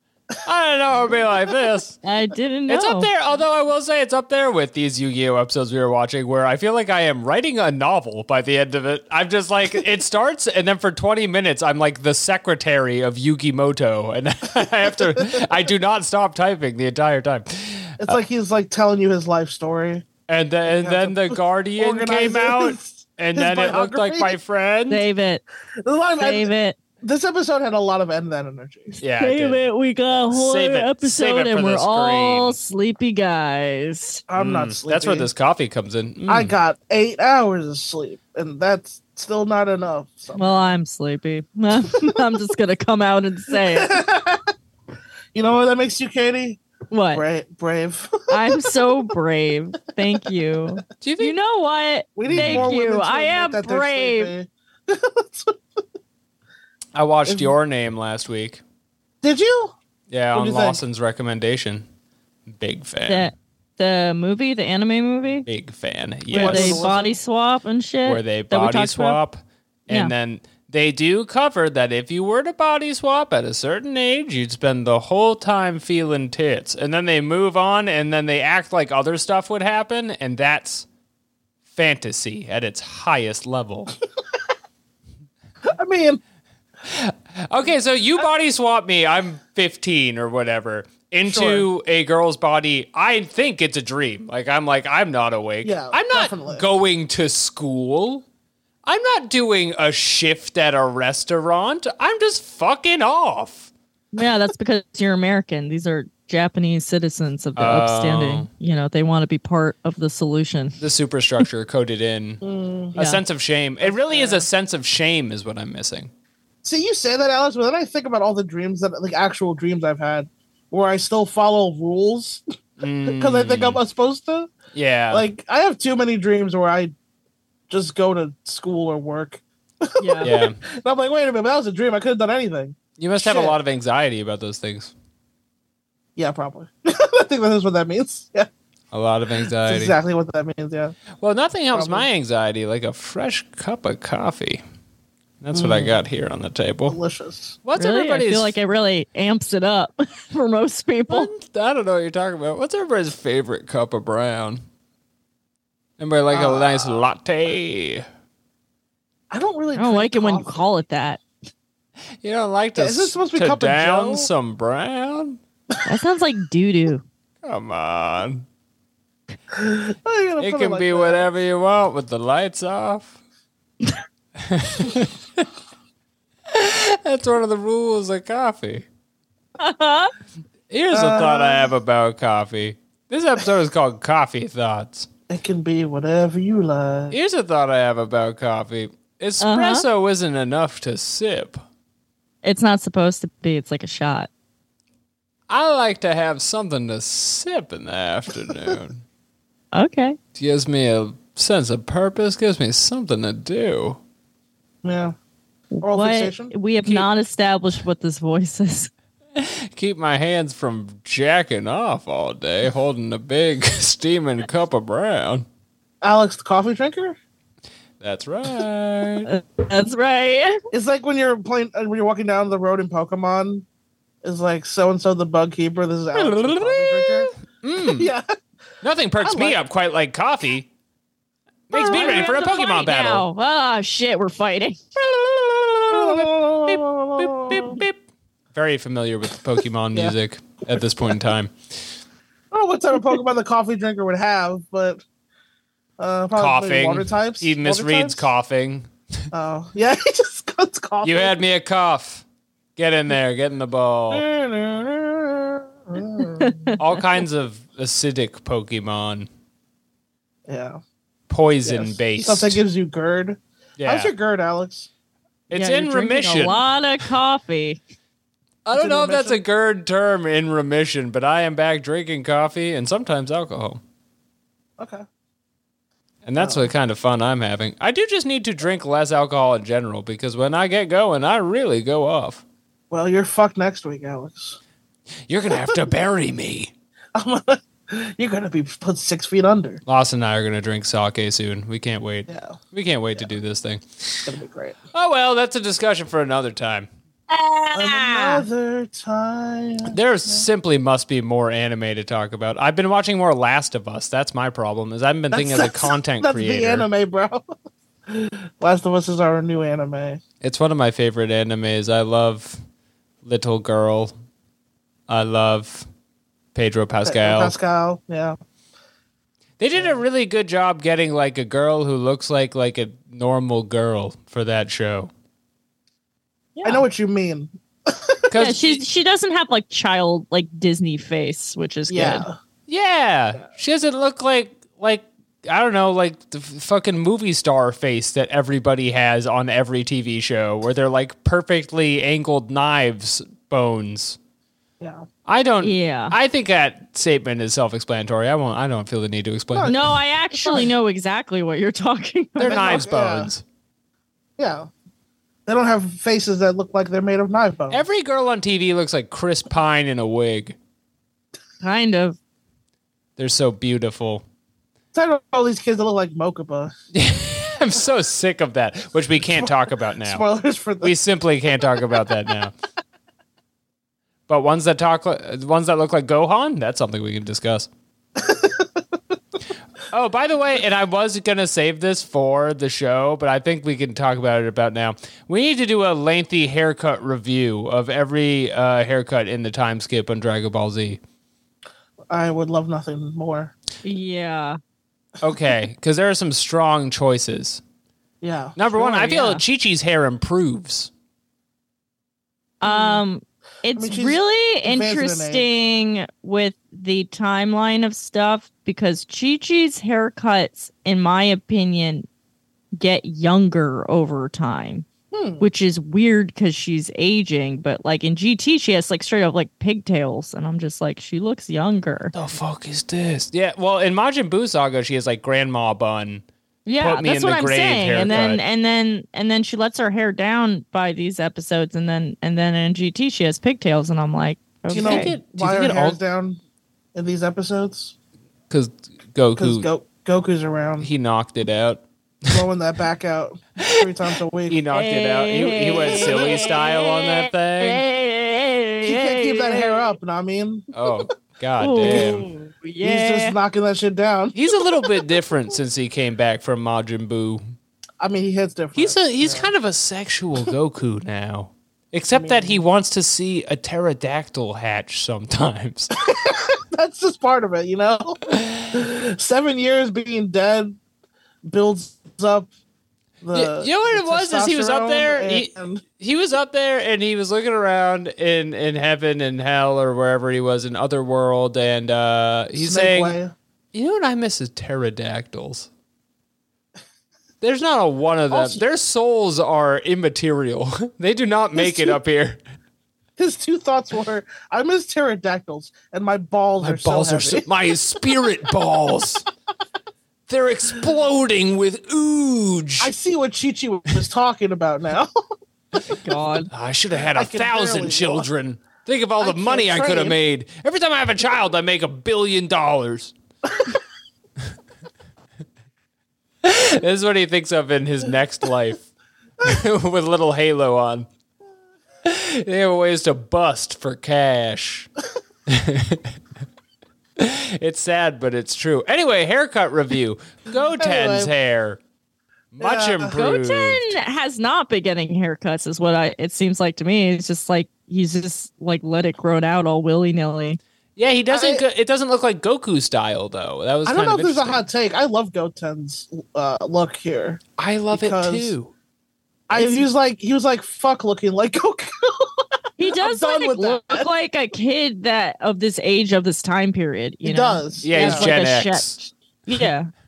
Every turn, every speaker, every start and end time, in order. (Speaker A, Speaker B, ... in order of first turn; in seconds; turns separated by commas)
Speaker A: 0.4-2.0, Speaker B: 2.0-3.1, Speaker A: 2.7-18.2, Speaker C: 15.1-15.4, Speaker C: 18.0-20.1, Speaker A: 20.3-25.0, Speaker C: 20.6-24.4, Speaker B: 24.9-25.4, Speaker C: 25.8-26.5, Speaker B: 26.2-26.8, Speaker C: 27.0-29.0, Speaker A: 29.0-29.6, Speaker B: 29.1-34.2, Speaker A: 30.3-32.6, Speaker C: 34.3-35.3, Speaker A: 34.4-36.5, Speaker C: 36.3-40.7, Speaker B: 40.4-44.0, Speaker C: 43.7-44.5, Speaker C: 45.3-46.6, Speaker B: 46.9-47.2, Speaker C: 47.1-48.8, Speaker B: 48.3-54.3, Speaker A: 51.0-51.3, Speaker C: 52.2-55.6, Speaker A: 52.3-52.7, Speaker A: 56.9-58.6, Speaker C: 57.2-57.5, Speaker C: 59.2-59.7, Speaker A: 60.1-61.8, Speaker C: 60.3-60.8, Speaker A: 62.5-63.3, Speaker B: 63.1-65.5, Speaker A: 65.5-67.0, Speaker C: 66.3-67.1, Speaker B: 66.3-69.2, Speaker A: 68.0-80.8, Speaker A: 81.7-84.0, Speaker C: 85.6-86.2, Speaker A: 86.8-98.2, Speaker C: 91.3-91.7, Speaker C: 95.6-96.6, Speaker A: 98.8-103.7, Speaker B: 104.1-110.8, Speaker A: 107.5-108.5, Speaker A: 110.8-112.4, Speaker C: 112.4-113.0, Speaker A: 112.9-116.1, Speaker C: 113.8-114.5, Speaker C: 116.6-122.4, Speaker A: 122.8-123.8, Speaker C: 123.1-124.5, Speaker A: 124.7-125.2, Speaker C: 125.1-126.9, Speaker C: 127.7-133.6, Speaker B: 130.0-130.3, Speaker A: 130.2-130.6, Speaker A: 133.0-134.9, Speaker C: 136.2-138.5, Speaker A: 138.9-139.9, Speaker C: 139.6-141.0, Speaker A: 141.2-144.6, Speaker C: 141.7-142.1, Speaker A: 145.4-147.0, Speaker C: 145.5-145.9, Speaker C: 146.9-147.6, Speaker A: 147.6-148.5, Speaker B: 147.7-151.3, Speaker A: 151.1-154.6, Speaker A: 156.0-158.0, Speaker C: 156.3-157.0, Speaker C: 159.3-160.6, Speaker B: 159.7-161.2, Speaker A: 162.2-165.4, Speaker C: 162.8-164.3, Speaker B: 165.8-167.0, Speaker A: 167.4-168.4, Speaker C: 169.5-171.3, Speaker A: 170.4-173.2, Speaker A: 174.4-175.4, Speaker A: 176.5-178.8, Speaker B: 179.6-180.1, Speaker A: 180.7-185.1, Speaker C: 180.9-181.7, Speaker C: 185.3-187.2, Speaker A: 187.1-191.6, Speaker B: 189.4-189.8, Speaker B: 192.4-194.3, Speaker A: 195.5-199.0, Speaker B: 199.7-200.2, Speaker A: 200.3-204.0, Speaker C: 204.8-205.2, Speaker B: 205.7-208.9, Speaker C: 205.8-206.5, Speaker A: 209.3-215.4, Speaker C: 216.0-217.2, Speaker A: 218.0-219.3, Speaker B: 219.2-220.6, Speaker C: 220.7-223.6, Speaker C: 224.2-228.2, Speaker A: 226.1-228.1, Speaker A: 228.8-230.7, Speaker C: 229.2-229.6, Speaker A: 231.7-233.2, Speaker B: 231.7-234.8, Speaker C: 231.9-232.3, Speaker A: 234.9-238.0, Speaker C: 235.9-237.8, Speaker A: 238.5-241.5, Speaker C: 242.5-245.0, Speaker C: 246.0-248.3, Speaker A: 246.3-248.9, Speaker C: 249.3-251.3, Speaker A: 251.0-252.2, Speaker A: 252.8-254.2, Speaker C: 254.1-256.7, Speaker B: 256.3-256.8, Speaker A: 256.8-259.3, Speaker C: 260.5-260.8, Speaker A: 261.3-262.6, Speaker C: 261.6-264.9, Speaker A: 263.8-264.1, Speaker A: 265.5-266.6, Speaker B: 265.5-267.8, Speaker A: 268.6-273.8, Speaker C: 268.7-269.4, Speaker C: 274.8-275.0, Speaker A: 276.2-282.4, Speaker C: 276.4-276.7, Speaker C: 282.9-284.6, Speaker A: 285.3-286.7, Speaker C: 287.1-289.8, Speaker A: 289.9-294.3, Speaker C: 292.3-292.6, Speaker C: 294.2-294.8, Speaker A: 294.9-296.9, Speaker B: 297.3-298.4, Speaker C: 297.7-300.4, Speaker A: 299.9-306.9, Speaker C: 305.3-307.4, Speaker C: 308.1-310.2, Speaker A: 310.4-312.6, Speaker A: 313.2-314.1, Speaker A: 315.1-315.9, Speaker A: 316.5-317.5, Speaker C: 317.0-318.4, Speaker A: 319.6-325.1, Speaker B: 326.6-326.8, Speaker C: 326.6-328.4, Speaker A: 328.3-328.8, Speaker B: 328.3-332.2, Speaker C: 331.9-332.4, Speaker A: 332.7-344.2, Speaker C: 344.8-345.1, Speaker A: 345.2-349.8, Speaker B: 345.6-346.1, Speaker C: 349.5-350.7, Speaker B: 349.7-352.8, Speaker A: 352.4-353.4, Speaker C: 352.4-353.3, Speaker C: 354.4-354.7, Speaker C: 355.4-357.8, Speaker A: 357.7-360.6, Speaker B: 361.6-362.2, Speaker A: 363.2-364.2, Speaker C: 364.9-366.7, Speaker A: 366.9-370.2, Speaker C: 369.2-369.5, Speaker C: 370.0-370.9, Speaker A: 370.8-372.5, Speaker A: 374.3-377.7, Speaker C: 378.1-378.8, Speaker A: 379.9-391.0, Speaker C: 392.1-393.5, Speaker B: 393.8-394.6, Speaker A: 395.2-397.6, Speaker C: 398.2-398.6, Speaker A: 398.6-400.9, Speaker B: 398.8-399.4, Speaker B: 402.6-412.1, Speaker C: 402.6-403.0, Speaker C: 403.7-405.4, Speaker B: 412.7-414.9, Speaker C: 415.1-415.4, Speaker B: 415.4-422.1, Speaker A: 422.1-426.2, Speaker B: 426.6-435.1, Speaker A: 426.8-428.4, Speaker A: 434.7-436.0, Speaker C: 434.7-436.4, Speaker C: 436.9-437.9, Speaker A: 438.5-439.7, Speaker C: 439.4-440.9, Speaker A: 440.8-442.4, Speaker C: 442.3-444.6, Speaker A: 443.6-443.9, Speaker A: 444.5-447.8, Speaker B: 444.7-449.9, Speaker C: 445.6-446.5, Speaker C: 448.8-450.9, Speaker A: 450.7-452.2, Speaker B: 451.6-453.4, Speaker C: 451.8-452.3, Speaker C: 452.8-455.1, Speaker A: 454.3-457.4, Speaker C: 458.0-459.5, Speaker A: 458.8-465.9, Speaker C: 462.1-462.6, Speaker C: 466.0-470.8, Speaker A: 468.3-468.6, Speaker C: 471.4-472.5, Speaker C: 473.2-475.8, Speaker A: 473.3-483.2, Speaker C: 482.6-483.3, Speaker A: 483.7-485.7, Speaker A: 487.4-492.4, Speaker C: 488.3-488.6, Speaker C: 491.5-492.0, Speaker C: 493.2-497.5, Speaker A: 496.6-499.2, Speaker A: 500.3-502.9, Speaker C: 502.8-505.1, Speaker B: 505.9-506.5, Speaker A: 506.5-513.1, Speaker C: 507.1-508.3, Speaker C: 509.2-510.2, Speaker A: 516.4-518.9, Speaker A: 519.4-521.1, Speaker A: 522.0-524.9, Speaker A: 525.5-526.1, Speaker A: 527.2-531.8, Speaker C: 530.8-531.3, Speaker A: 532.5-533.9, Speaker C: 532.6-533.1, Speaker B: 533.1-540.6, Speaker A: 541.0-544.6, Speaker C: 541.3-541.6, Speaker C: 543.9-547.4, Speaker A: 547.6-548.7, Speaker C: 547.9-548.5, Speaker C: 549.5-554.1, Speaker B: 549.5-549.9, Speaker B: 552.8-559.9, Speaker C: 557.2-558.3, Speaker A: 557.8-559.0